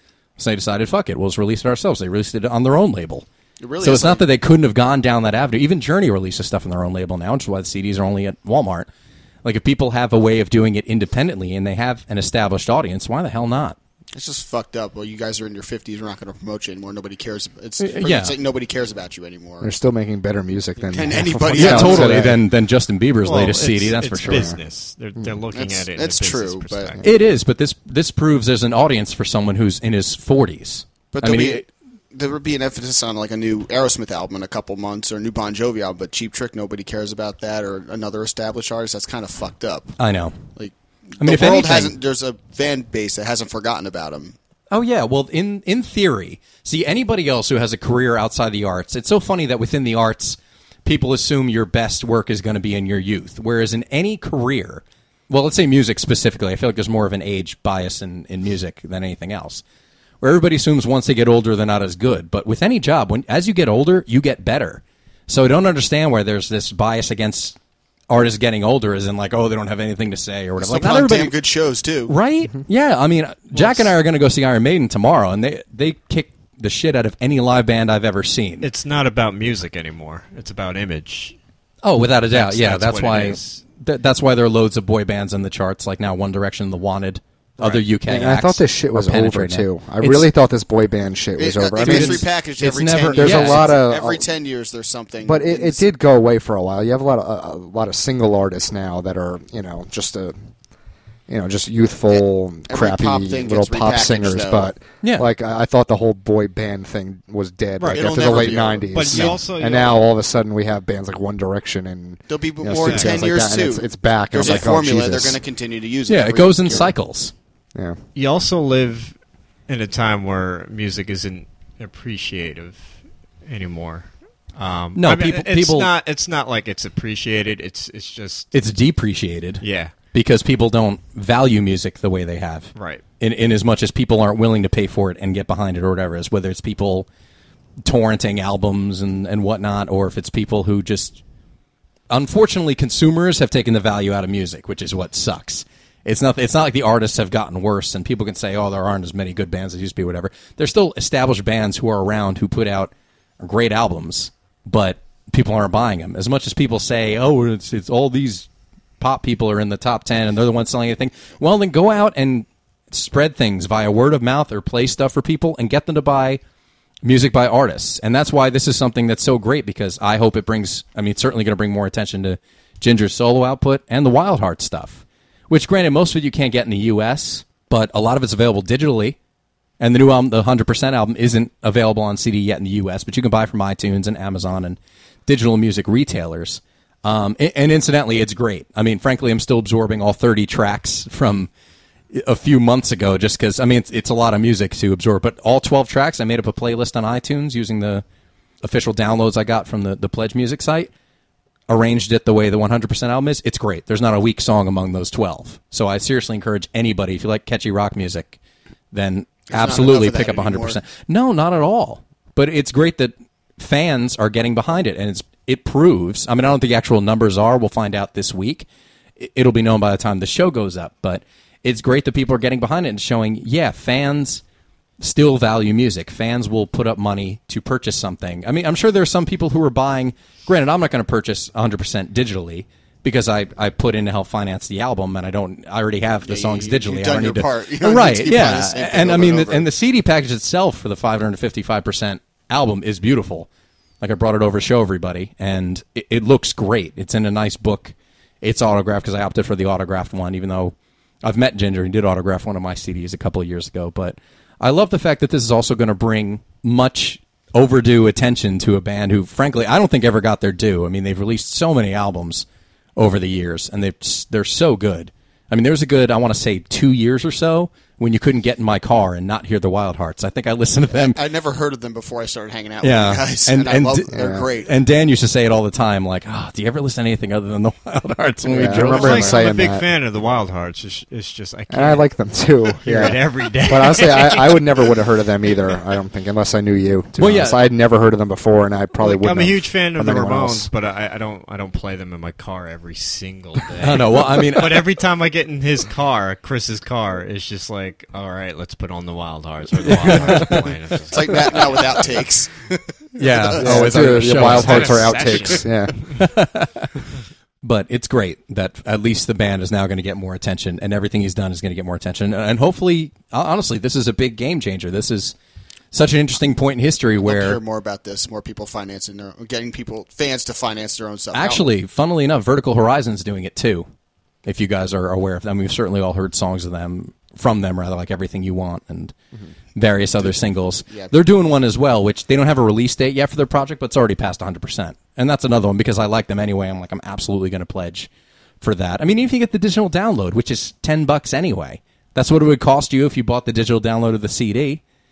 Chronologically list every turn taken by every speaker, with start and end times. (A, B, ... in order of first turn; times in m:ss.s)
0:00.4-0:03.2 A
0:03.6-0:04.2 B
0:03.8-0:08.9 A
0:09.4-0:13.8 A
0:14.2-0:19.7 B
0:17.8-0:18.3 A
0:19.6-0:22.4 C
0:20.8-0:22.3 B
0:21.5-0:24.5 A
0:23.2-0:27.1 D
0:24.3-0:24.6 C
0:25.5-0:26.9 B
0:27.0-0:31.7 A
0:31.1-0:39.9 B
0:40.0-0:40.4 A
0:40.6-0:44.4 B
0:41.2-0:42.0 A
0:44.7-0:59.6 A
1:00.2-1:07.6 A
1:08.1-1:11.3 A
1:10.6-1:12.1 B
1:12.1-1:18.7 A
1:18.6-1:21.4 D
1:21.8-1:30.3 A
1:22.3-1:23.6 D
1:28.1-1:32.3 C
1:31.4-1:35.9 B
1:31.8-1:33.8 A
1:33.1-1:34.3 C
1:35.2-1:40.4 C
1:41.3-1:55.4 C
1:42.1-1:44.7 B
1:45.0-1:45.3 A
1:47.8-1:50.0 D
1:47.9-1:49.4 B
1:52.3-1:56.9 B
1:52.7-1:53.2 D
1:56.1-1:57.3 A
1:58.2-1:59.1 D
1:59.7-2:08.5 D
2:05.0-2:05.9 A
2:08.5-2:17.1 A
2:09.6-2:09.9 D
2:12.8-2:13.0 D
2:17.8-2:21.2 A
2:22.1-2:38.5 A
2:39.0-2:46.4 A
2:47.0-2:59.2 A
2:59.8-3:11.5 A
3:12.1-3:18.0 A
3:18.6-3:20.9 A
3:21.7-3:28.4 A
3:28.9-3:44.4 A
3:29.5-3:30.8 B
3:45.0-4:03.5 A
3:56.2-3:59.7 B
4:04.0-4:31.2 A
4:30.9-4:34.7 B
4:32.8-4:39.4 A
4:34.1-4:34.5 C
4:38.5-4:39.9 C
4:38.9-4:42.1 D
4:39.0-4:39.3 B
4:41.7-4:50.7 C
4:42.7-4:44.7 D
4:47.2-4:47.6 A
4:49.0-5:02.1 D
4:53.8-4:54.9 A
4:59.9-5:00.6 A
5:00.0-5:00.6 C
5:01.1-5:03.9 B
5:03.2-5:05.1 A
5:03.6-5:06.0 C
5:04.3-5:05.9 D
5:04.8-5:05.4 B
5:06.1-5:07.0 A
5:07.6-5:15.4 A
5:15.9-5:17.6 A
5:17.2-5:21.6 B
5:21.3-5:23.9 A
5:24.4-5:29.1 A
5:29.8-5:38.1 A
5:30.2-5:31.1 B
5:38.6-5:44.8 A